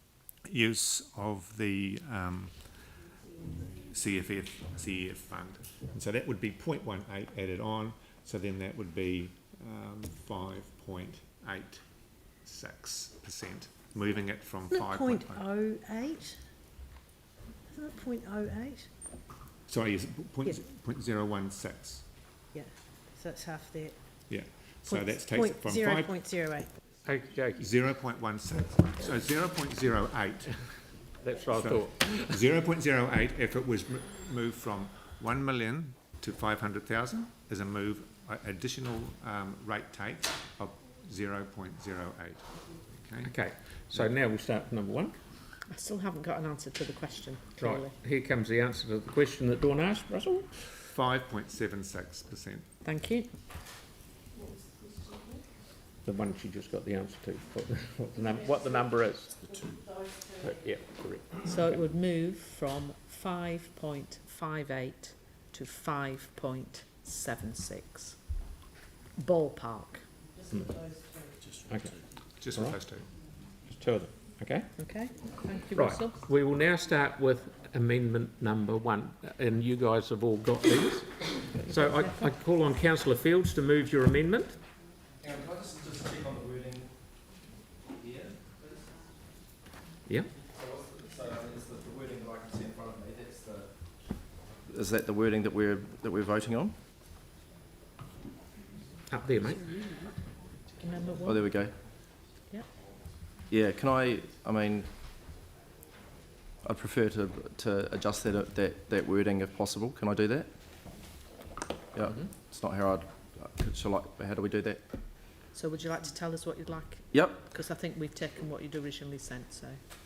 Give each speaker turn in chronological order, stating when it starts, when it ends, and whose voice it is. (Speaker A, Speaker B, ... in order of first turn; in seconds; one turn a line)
Speaker A: 0.5-2.7
Speaker A: 3.8-15.5
Speaker B: 15.5-16.3
Speaker B: 17.8-18.9
Speaker A: 19.7-22.1
Speaker B: 23.2-23.9
Speaker A: 24.3-26.2
Speaker B: 26.2-26.7
Speaker C: 27.0-27.6
Speaker A: 27.6-30.6
Speaker C: 31.2-32.4
Speaker A: 31.6-43.4
Speaker C: 43.2-45.2
Speaker D: 45.7-48.0
Speaker C: 47.6-50.5
Speaker A: 50.8-52.7
Speaker D: 52.8-53.3
Speaker C: 56.0-59.5
Speaker C: 60.4-61.5
Speaker D: 61.4-68.2
Speaker D: 69.2-70.1
Speaker C: 70.5-70.8
Speaker C: 71.6-72.8
Speaker A: 72.4-73.1
Speaker C: 73.6-74.7
Speaker D: 74.8-76.2
Speaker C: 75.7-84.6
Speaker D: 81.6-82.2
Speaker E: 85.2-87.0
Speaker E: 88.0-88.4
Speaker C: 90.1-90.3
Speaker E: 90.5-93.7
Speaker E: 94.7-96.8
Speaker C: 99.1-99.6
Speaker D: 100.8-101.5
Speaker E: 101.2-101.8
Speaker E: 103.5-104.9
Speaker E: 106.6-110.5
Speaker E: 111.9-114.8
Speaker D: 115.5-119.8
Speaker E: 117.1-117.4